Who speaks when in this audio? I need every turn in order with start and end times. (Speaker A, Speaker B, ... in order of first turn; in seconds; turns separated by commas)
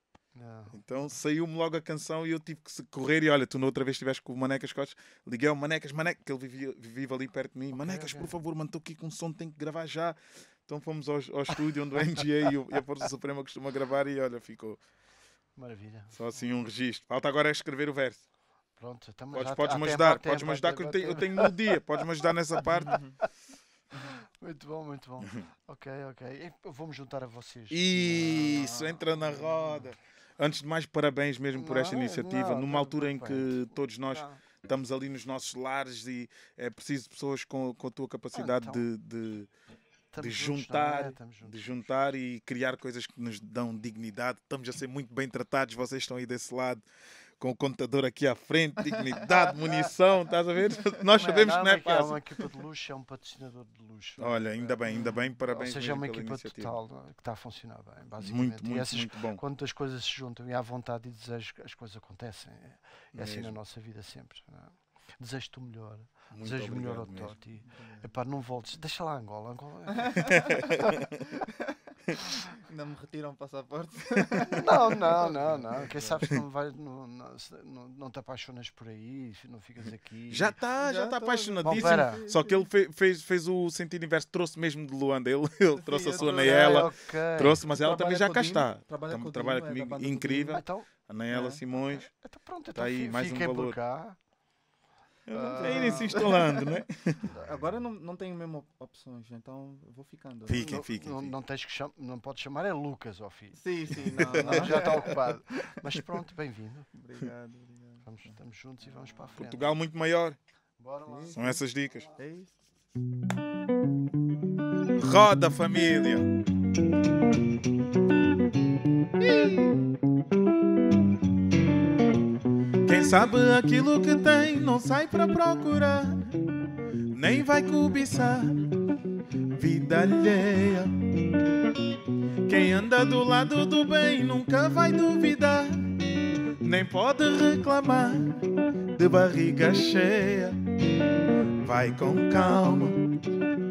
Speaker A: 0.3-0.8, Speaker B: 0.7-14.8, Speaker A: 7.7-8.3, Speaker A: 15.6-16.2, Speaker B: 16.1-18.2, Speaker A: 18.8-22.0, Speaker B: 19.3-23.0, Speaker C: 22.8-23.1, Speaker A: 23.9-29.8, Speaker B: 27.7-39.5, Speaker A: 31.5-34.4, Speaker A: 38.3-38.9, Speaker A: 40.1-41.9, Speaker B: 40.2-46.8, Speaker B: 47.4-52.2, Speaker A: 51.1-70.9, Speaker B: 54.2-56.8, Speaker B: 58.2-59.4, Speaker B: 63.1-63.6, Speaker B: 66.3-67.3, Speaker B: 70.2-71.0, Speaker C: 71.3-71.7, Speaker C: 72.3-76.2, Speaker A: 74.4-80.5, Speaker B: 80.3-92.1, Speaker C: 80.7-82.7, Speaker A: 81.6-82.2, Speaker C: 85.8-86.7, Speaker A: 86.3-87.7, Speaker C: 87.7-90.6, Speaker A: 90.5-90.9, Speaker C: 91.3-91.6, Speaker A: 91.8-94.2, Speaker B: 92.7-93.8, Speaker B: 95.3-97.3, Speaker A: 95.3-96.2, Speaker C: 95.3-96.6, Speaker C: 97.2-100.7, Speaker B: 100.5-101.3, Speaker A: 100.5-106.9, Speaker C: 103.6-105.2, Speaker B: 104.2-105.1, Speaker C: 106.9-108.3, Speaker A: 108.0-109.8, Speaker B: 109.4-110.4, Speaker A: 110.8-111.6, Speaker C: 111.0-111.5, Speaker B: 111.3-112.1, Speaker C: 112.2-112.5, Speaker B: 114.9-116.3, Speaker B: 119.2-119.7, Speaker B: 122.8-126.3, Speaker B: 127.1-128.7, Speaker B: 129.5-130.9, Speaker B: 132.4-135.9, Speaker B: 136.6-138.4, Speaker B: 138.9-140.6, Speaker B: 141.6-143.0